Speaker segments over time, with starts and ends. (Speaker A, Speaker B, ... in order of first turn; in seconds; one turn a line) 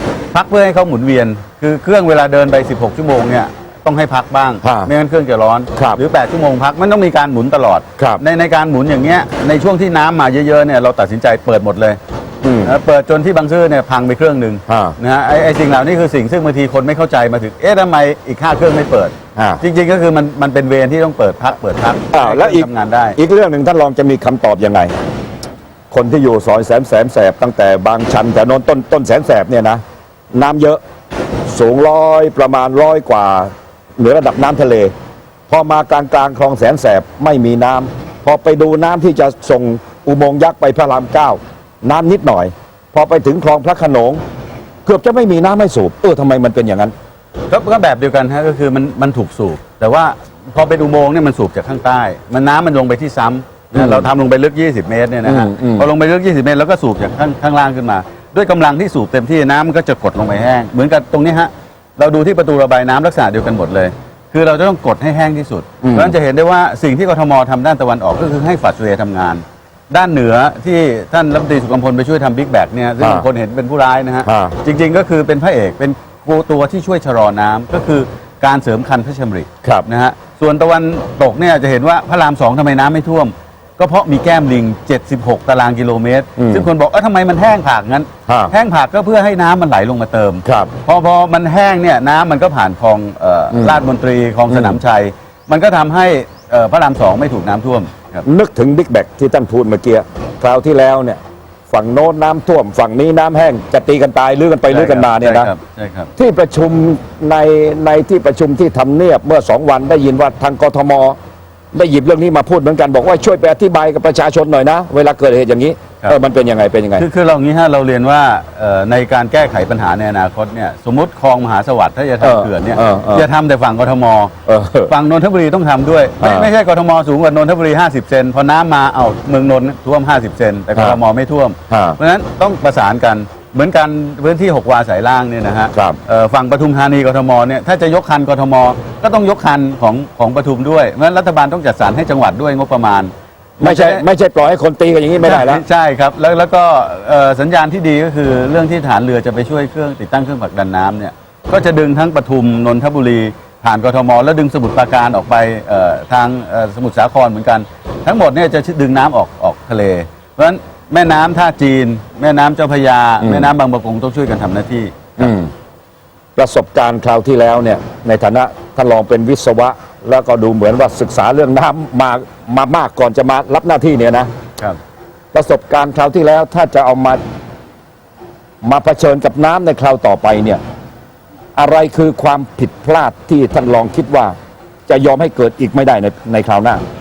Speaker A: 0.3-12.0
Speaker B: 4.6-4.9
Speaker B: 5.7-6.0
Speaker B: 12.4-12.7
Speaker A: 12.6-23.2
Speaker B: 14.7-15.0
Speaker B: 19.4-19.6
Speaker B: 22.1-24.9
Speaker B: 25.9-29.8
Speaker B: 30.3-30.8
Speaker B: 31.5-34.9
Speaker B: 35.5-44.2
Speaker B: 44.8-46.9
Speaker A: 47.5-98.2
Speaker B: 53.7-54.1
Speaker B: 55.2-55.9
Speaker B: 65.8-66.1
Speaker B: 73.0-73.2
Speaker B: 74.2-74.5
Speaker B: 86.4-86.7
Speaker B: 88.3-88.5
Speaker B: 90.4-90.7
Speaker B: 93.5-93.8
Speaker B: 94.5-94.8
Speaker B: 98.2-101.2
Speaker B: 101.7-105.5
Speaker A: 104.7-106.1
Speaker B: 106.2-111.2
Speaker B: 111.7-117.0
Speaker A: 117.0-124.3
Speaker B: 122.2-123.3
Speaker B: 124.5-124.9
Speaker A: 124.9-144.0
Speaker B: 126.2-126.5
Speaker B: 130.7-131.0
Speaker B: 131.7-132.0
Speaker B: 143.6-145.6
Speaker A: 145.2-165.3
Speaker B: 163.2-163.5
Speaker B: 165.2-165.5
Speaker B: 166.3-174.3
Speaker B: 175.3-177.2
Speaker B: 178.6-180.6
Speaker B: 181.6-184.3
Speaker B: 184.9-186.8